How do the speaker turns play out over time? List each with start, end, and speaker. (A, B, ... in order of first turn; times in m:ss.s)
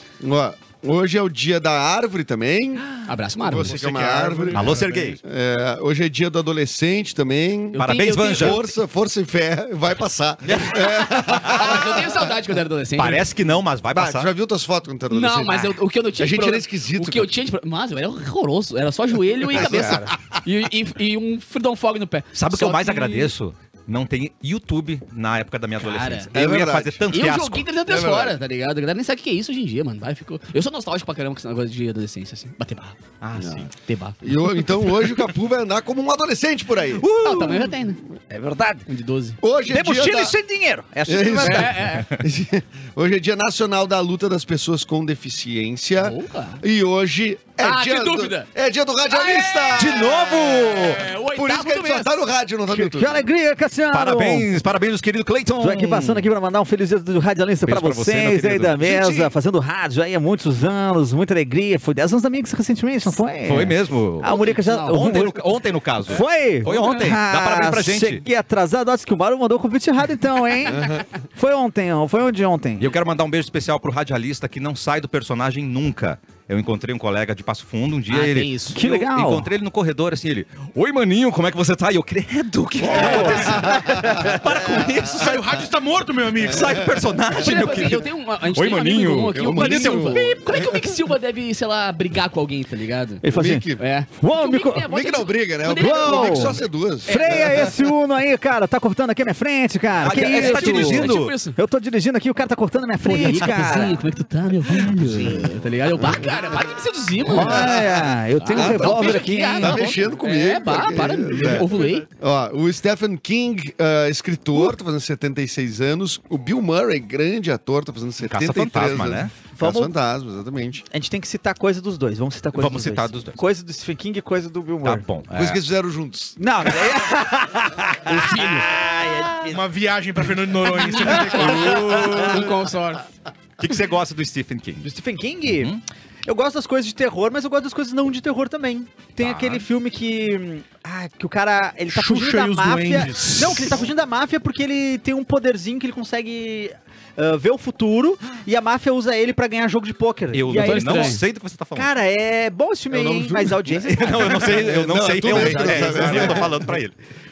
0:00.2-0:02.9 A
0:03.0-0:03.8 B
0:03.4-0:12.1 A
0:03.6-0:05.1 C
0:04.5-0:05.2 D
0:07.7-0:08.7 B
0:07.8-0:08.6 D
0:10.4-0:11.7 D
0:11.5-0:13.3 B
0:13.0-0:14.3 D
0:13.9-0:17.3 A
0:15.1-0:23.3 B
0:19.4-0:20.2 A
0:19.5-0:20.0 E
0:22.3-0:27.7 D
0:25.8-0:26.3 B
0:26.3-0:27.3 A
0:27.1-0:33.0 B
0:27.8-0:28.4 A
0:33.2-0:33.7 D
0:33.4-0:33.7 A
0:33.8-0:34.2 B
0:34.2-0:37.1 A
0:37.0-0:37.6 D
0:37.2-0:38.0 B
0:38.3-0:38.9 E
0:38.9-0:39.4 B
0:39.4-0:40.4 A
0:39.7-0:41.8 E
0:41.0-0:53.3 A
0:41.4-0:42.1 B
0:46.0-0:46.6 B
0:47.6-0:48.5 B
0:49.1-0:52.1 B
0:49.7-0:51.0 D
0:52.7-0:54.5 E
0:53.9-0:56.3 D
0:55.6-1:05.4 E
0:57.6-0:59.3 D
1:03.4-1:08.2 D
1:04.2-1:05.0 B
1:06.1-1:12.9 E
1:06.7-1:07.0 B
1:12.8-1:25.4 D
1:18.1-1:18.8 B
1:18.7-1:19.5 E
1:22.8-1:24.8 E
1:23.1-1:24.2 A
1:25.1-1:26.8 C
1:26.4-1:26.9 A
1:26.4-1:30.3 D
1:27.3-1:33.2 B
1:29.3-1:30.8 A
1:33.2-1:33.6 E
1:33.2-1:33.8 A
1:33.8-1:37.6 B
1:34.2-1:34.9 E
1:34.8-1:37.7 A
1:35.7-1:44.0 E
1:40.0-1:41.3 D
1:40.1-1:41.6 B
1:43.0-1:47.7 B
1:46.0-1:46.3 A
1:47.3-1:50.0 E
1:47.3-2:00.8 A
1:48.4-1:52.1 B
1:58.2-1:59.3 D
1:59.6-1:59.9 E
2:00.9-2:05.0 E
2:02.5-2:03.4 D
2:04.8-2:05.6 D
2:05.3-2:06.7 A
2:06.4-2:09.6 E
2:08.1-2:08.6 B
2:09.5-2:12.1 C
2:11.0-2:13.0 B
2:12.0-2:12.4 D
2:13.6-2:14.9 D
2:14.8-2:15.7 E
2:15.5-2:15.8 D
2:16.2-2:31.2 E
2:19.2-2:19.6 D
2:21.9-2:23.8 C
2:30.3-2:31.9 D
2:30.5-2:31.2 B
2:31.8-2:36.5 E
2:32.9-2:36.7 A
2:33.8-2:36.9 D